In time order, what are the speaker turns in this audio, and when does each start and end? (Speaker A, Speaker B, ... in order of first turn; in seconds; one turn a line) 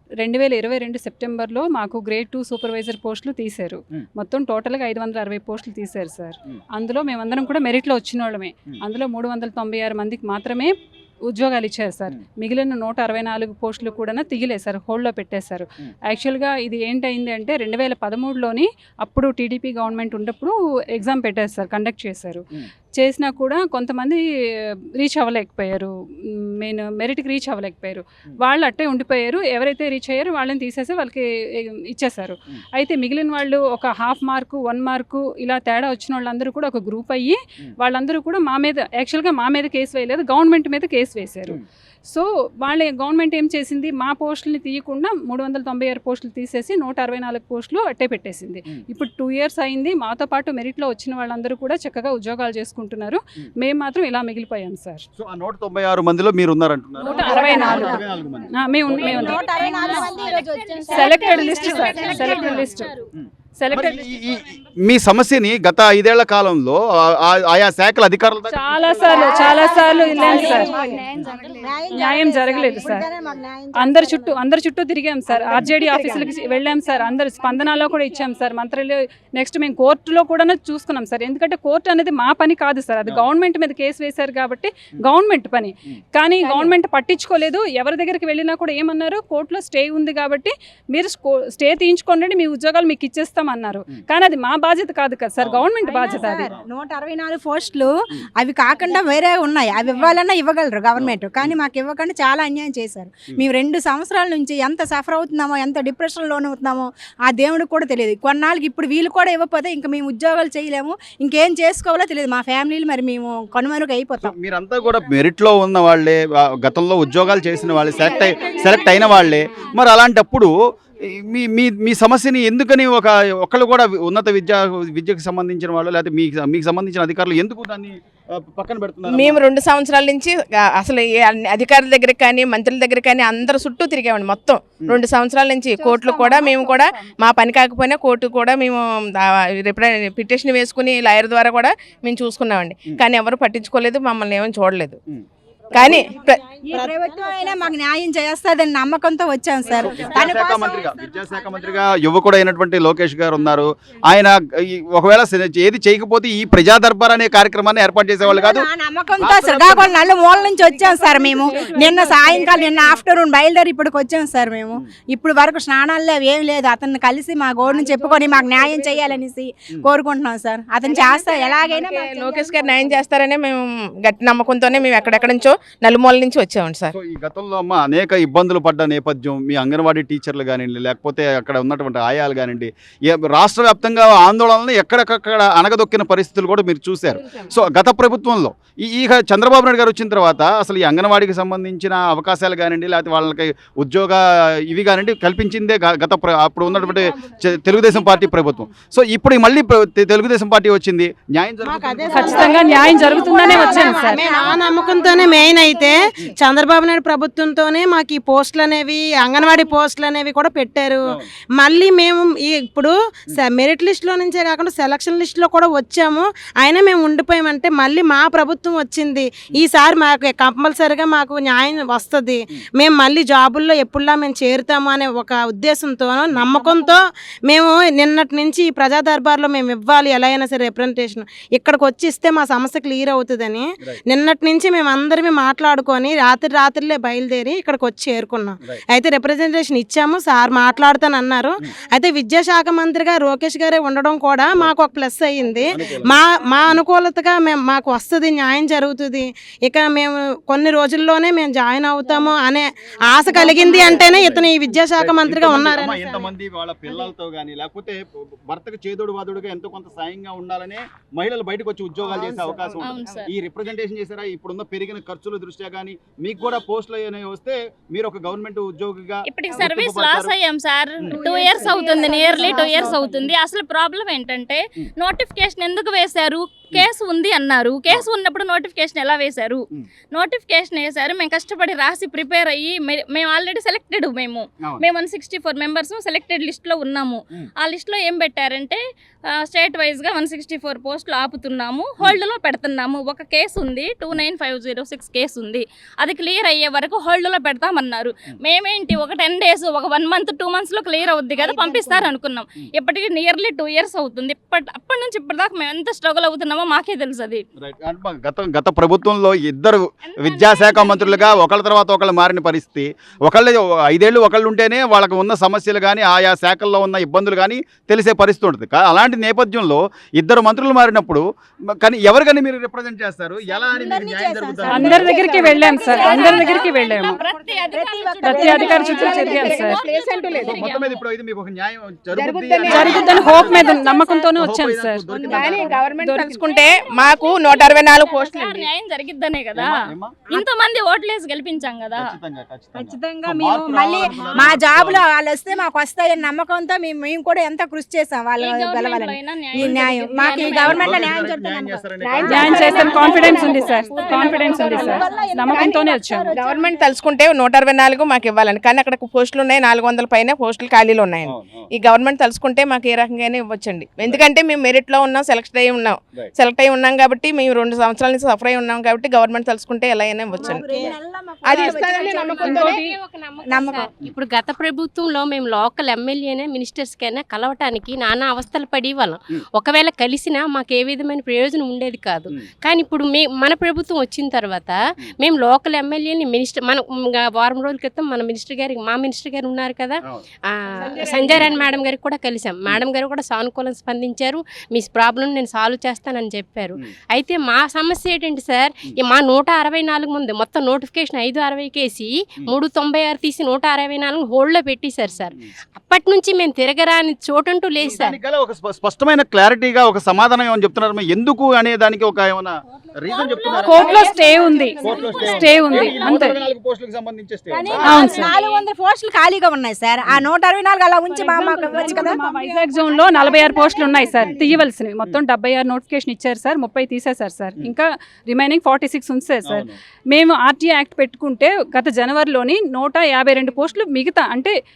Speaker A: 0.2-10.7
Speaker A: 11.3-24.2
Speaker A: 25.0-25.9
Speaker A: 26.6-55.1
Speaker B: 55.2-59.4
Speaker A: 57.0-58.0
Speaker C: 57.1-58.0
Speaker A: 58.5-59.4
Speaker C: 59.0-62.6
Speaker D: 59.0-63.0
Speaker A: 60.9-62.9
Speaker B: 62.0-62.4
Speaker B: 63.2-69.2
Speaker A: 63.6-64.1
Speaker A: 68.5-70.7
Speaker C: 69.1-74.4
Speaker A: 71.9-73.1
Speaker A: 73.7-96.5
Speaker E: 75.5-76.3
Speaker C: 86.4-86.7
Speaker B: 95.4-96.6
Speaker C: 95.8-114.3
Speaker B: 101.0-101.5
Speaker B: 114.2-129.4
Speaker C: 118.1-119.1
Speaker E: 129.1-145.0
Speaker C: 135.8-136.9
Speaker E: 145.7-146.4
Speaker C: 145.8-146.1
Speaker F: 146.2-147.7
Speaker C: 146.7-150.9
Speaker B: 149.7-158.7
Speaker D: 149.7-150.7
Speaker C: 158.2-173.0
Speaker B: 159.2-159.9
Speaker A: 160.7-162.8
Speaker E: 170.9-176.9
Speaker B: 176.9-202.0
Speaker F: 201.6-211.0
Speaker A: 202.0-204.3
Speaker C: 202.1-205.9
Speaker F: 211.6-256.3
Speaker C: 226.4-226.9
Speaker B: 245.7-246.8
Speaker C: 253.4-254.0
Speaker B: 253.8-254.4
Speaker B: 255.0-270.4
Speaker F: 262.2-262.6
Speaker D: 262.8-263.3
Speaker D: 269.3-288.8
Speaker C: 271.1-273.3
Speaker E: 272.4-272.9
Speaker D: 289.4-307.4
Speaker C: 301.4-302.1
Speaker B: 307.6-321.2
Speaker D: 310.0-311.4
Speaker B: 321.8-325.2
Speaker C: 323.4-329.7
Speaker A: 324.6-327.2
Speaker E: 325.2-326.5
Speaker D: 325.9-331.0
Speaker A: 328.2-329.8
Speaker E: 328.8-330.7
Speaker B: 330.4-333.7
Speaker E: 332.1-333.9
Speaker A: 332.6-335.1
Speaker C: 332.8-334.1
Speaker B: 334.4-335.8
Speaker C: 335.1-335.8
Speaker E: 335.3-338.7
Speaker A: 335.7-336.4
Speaker D: 336.5-339.8
Speaker B: 339.5-340.3
Speaker D: 340.3-342.2
Speaker B: 342.0-345.0
Speaker C: 342.7-356.8
Speaker D: 348.4-351.1
Speaker B: 349.6-349.8
Speaker B: 350.6-352.2
Speaker E: 352.0-354.4
Speaker A: 352.2-356.3
Speaker D: 352.4-353.0
Speaker B: 353.1-353.4
Speaker D: 354.2-354.6
Speaker E: 356.3-372.8
Speaker B: 361.2-361.7
Speaker C: 370.3-372.7
Speaker F: 370.4-370.9
Speaker G: 372.0-408.2
Speaker A: 372.4-372.9
Speaker C: 373.4-373.9
Speaker F: 390.9-391.5
Speaker B: 391.3-391.8
Speaker B: 407.8-413.8
Speaker C: 413.1-414.1
Speaker A: 413.6-416.4
Speaker D: 413.7-415.2
Speaker C: 414.8-415.3
Speaker B: 414.8-417.7
Speaker C: 417.5-424.5
Speaker D: 417.7-418.6
Speaker A: 417.7-418.4
Speaker A: 421.2-434.5
Speaker B: 424.1-425.2